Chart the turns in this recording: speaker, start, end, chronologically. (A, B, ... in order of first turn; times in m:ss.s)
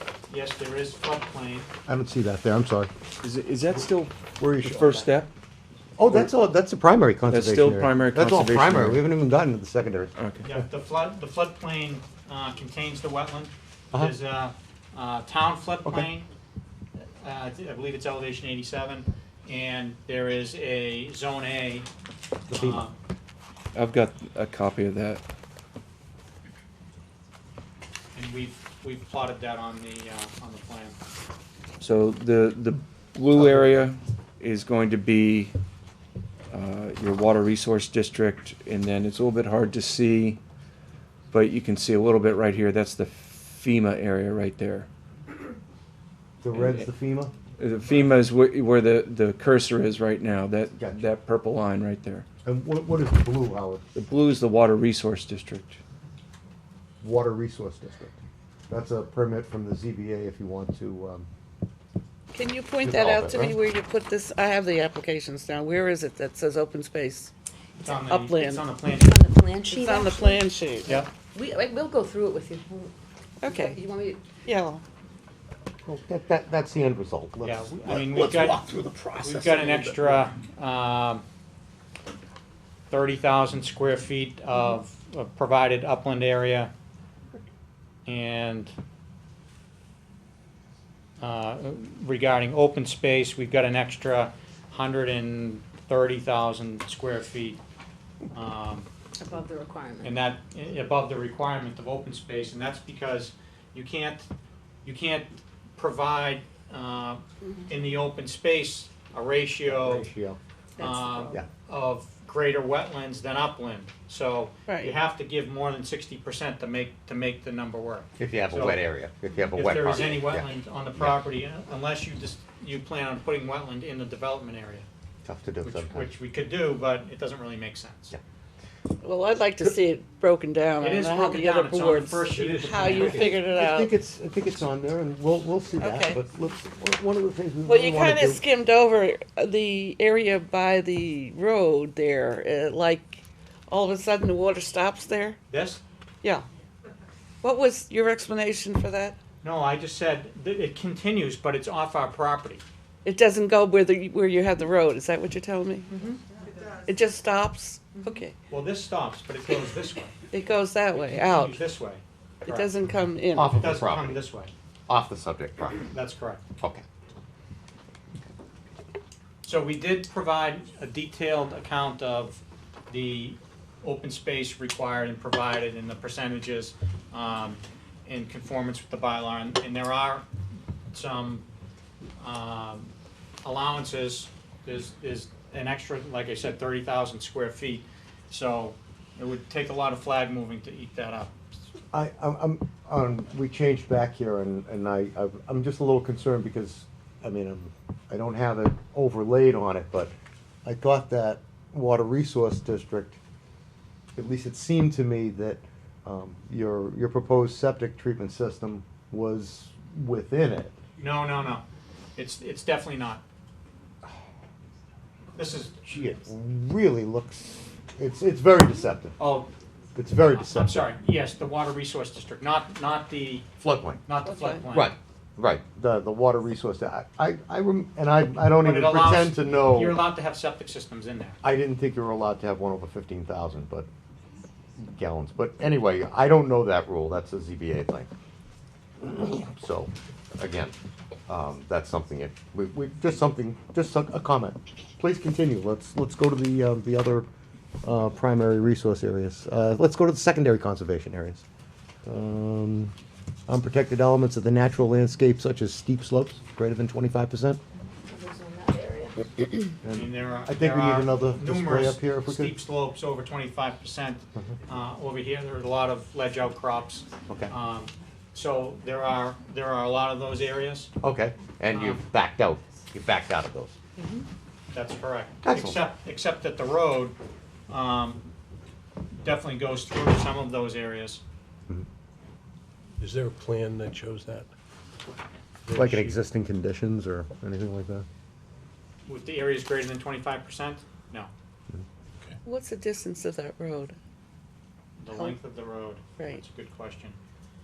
0:00.3-0:01.7 A
0:01.9-0:02.9 B
0:03.2-0:05.3 C
0:04.4-0:05.1 B
0:06.0-0:10.6 B
0:07.3-0:09.1 C
0:10.2-0:10.4 C
0:10.4-0:16.3 A
0:17.2-0:21.9 A
0:22.5-0:22.8 B
0:22.5-0:22.9 A
0:23.7-0:25.2 C
0:28.1-0:31.0 A
0:31.8-0:35.5 C
0:36.5-0:40.4 C
0:41.3-0:44.9 C
0:46.4-0:47.3 B
0:46.5-0:46.9 C
0:47.6-0:52.2 C
0:50.8-0:51.1 B
0:52.4-0:53.8 B
0:54.0-0:55.8 C
0:57.0-0:58.2 B
0:58.7-1:01.3 B
1:02.3-1:08.6 D
1:02.8-1:03.6 B
1:07.8-1:09.3 A
1:08.9-1:10.4 E
1:09.6-1:11.0 D
1:10.8-1:11.1 A
1:11.0-1:12.9 E
1:13.4-1:13.8 D
1:13.4-1:14.3 E
1:14.4-1:14.8 D
1:15.8-1:20.2 B
1:17.4-1:18.6 A
1:19.2-1:21.2 A
1:22.9-1:26.7 A
1:28.0-1:28.7 A
1:31.2-1:37.6 A
1:38.3-1:38.9 A
1:39.2-1:40.2 E
1:40.0-1:44.3 A
1:44.8-1:50.1 A
1:49.6-1:50.4 B
1:50.8-1:51.4 E
1:50.8-1:58.8 A
1:54.7-1:54.9 D
1:58.2-2:01.2 B
1:59.5-2:04.9 A
2:05.2-2:06.1 B
2:05.6-2:08.2 A
2:09.0-2:13.9 D
2:10.8-2:13.3 A
2:12.7-2:18.4 B
2:15.8-2:16.2 D
2:17.6-2:25.4 D
2:25.5-2:25.8 A
2:27.4-2:29.2 D
2:29.4-2:32.6 A
2:33.0-2:35.9 D
2:36.8-2:38.3 D
2:38.5-2:40.2 A
2:40.3-2:41.6 D
2:40.9-2:42.7 A
2:42.4-2:43.6 D
2:43.3-2:44.2 B
2:43.4-2:44.5 A
2:44.9-2:45.9 B
2:45.9-2:46.4 A
2:49.4-3:00.2 A
3:00.9-3:01.4 A
3:02.2-3:02.9 A
3:03.4-3:11.3 A
3:11.9-3:20.1 B
3:20.6-3:23.2 B
3:24.2-3:30.8 B
3:31.0-3:31.6 A
3:32.2-3:33.2 A
3:35.4-3:35.9 A
3:35.8-3:39.2 B
3:39.2-3:39.5 A
3:39.9-3:40.9 B
3:40.2-3:43.5 A
3:43.6-3:44.0 B
3:44.0-3:44.9 A
3:44.3-3:44.6 D
3:44.7-3:50.0 B
3:48.6-3:51.4 A
3:51.4-3:53.9 B
3:54.8-3:58.1 B
3:59.0-4:00.7 B
4:01.3-4:07.3 B
4:07.8-4:11.4 B
4:12.0-4:12.9 B
4:13.5-4:17.6 B
4:18.1-4:19.2 E
4:19.8-4:22.6 B
4:19.9-4:30.9 A
4:27.3-4:27.5 B
4:31.0-4:33.8 B
4:31.7-4:32.0 A
4:34.7-4:37.2 A
4:35.4-4:35.8 B
4:37.7-4:38.2 A
4:39.2-4:41.2 A
4:43.0-4:44.5 F
4:45.6-4:46.2 F
4:45.7-4:48.0 B
4:49.0-4:51.3 A
4:52.4-4:54.0 D
4:55.0-4:57.2 A
4:56.2-4:56.4 D